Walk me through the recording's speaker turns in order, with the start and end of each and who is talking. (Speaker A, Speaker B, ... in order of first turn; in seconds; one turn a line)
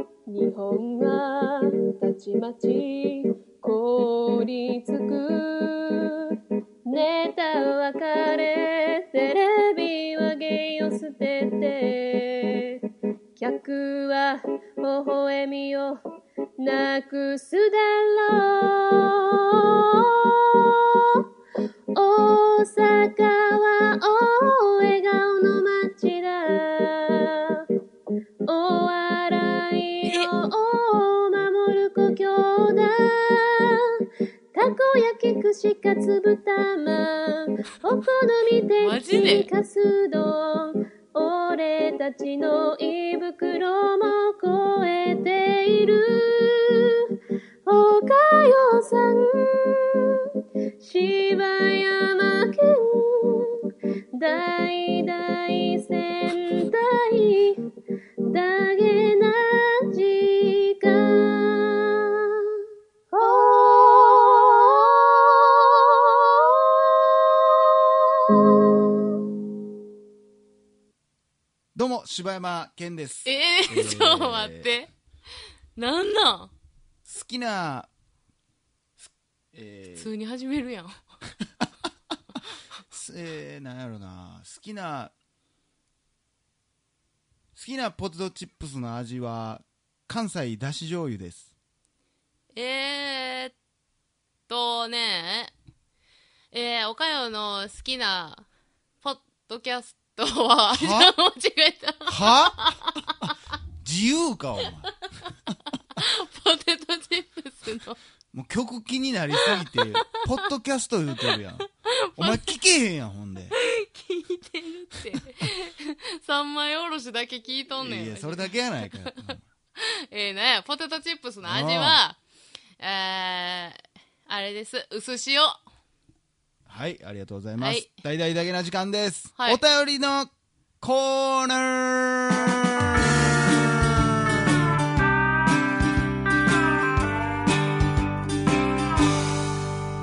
Speaker A: 0.3-12.8
Speaker A: 13.4-16.0
Speaker A: 16.6-21.2
Speaker A: 21.9-27.7
Speaker A: 28.4-34.0
Speaker B: 30.1-30.3
Speaker A: 34.5-53.6
Speaker B: 38.8-39.5
Speaker A: 54.1-57.6
Speaker A: 58.2-62.5
Speaker A: 63.1-69.2
Speaker C: 71.7-74.7
Speaker B: 73.2-74.9
Speaker B: 75.8-76.5
Speaker C: 77.0-77.9
Speaker C: 79.0-80.1
Speaker B: 79.9-81.0
Speaker C: 82.9-85.1
Speaker C: 87.5-91.5
Speaker B: 92.5-93.5
Speaker B: 94.5-95.5
Speaker B: 96.5-98.5
Speaker B: 99.0-103.3
Speaker C: 100.7-101.1
Speaker C: 102.1-102.7
Speaker C: 103.8-104.9
Speaker B: 105.9-108.0
Speaker C: 108.3-113.5
Speaker B: 109.3-110.4
Speaker B: 111.2-112.5
Speaker B: 113.5-122.2
Speaker C: 117.8-119.4
Speaker C: 121.4-122.0
Speaker B: 122.8-125.5
Speaker C: 126.7-134.6
Speaker B: 127.6-127.9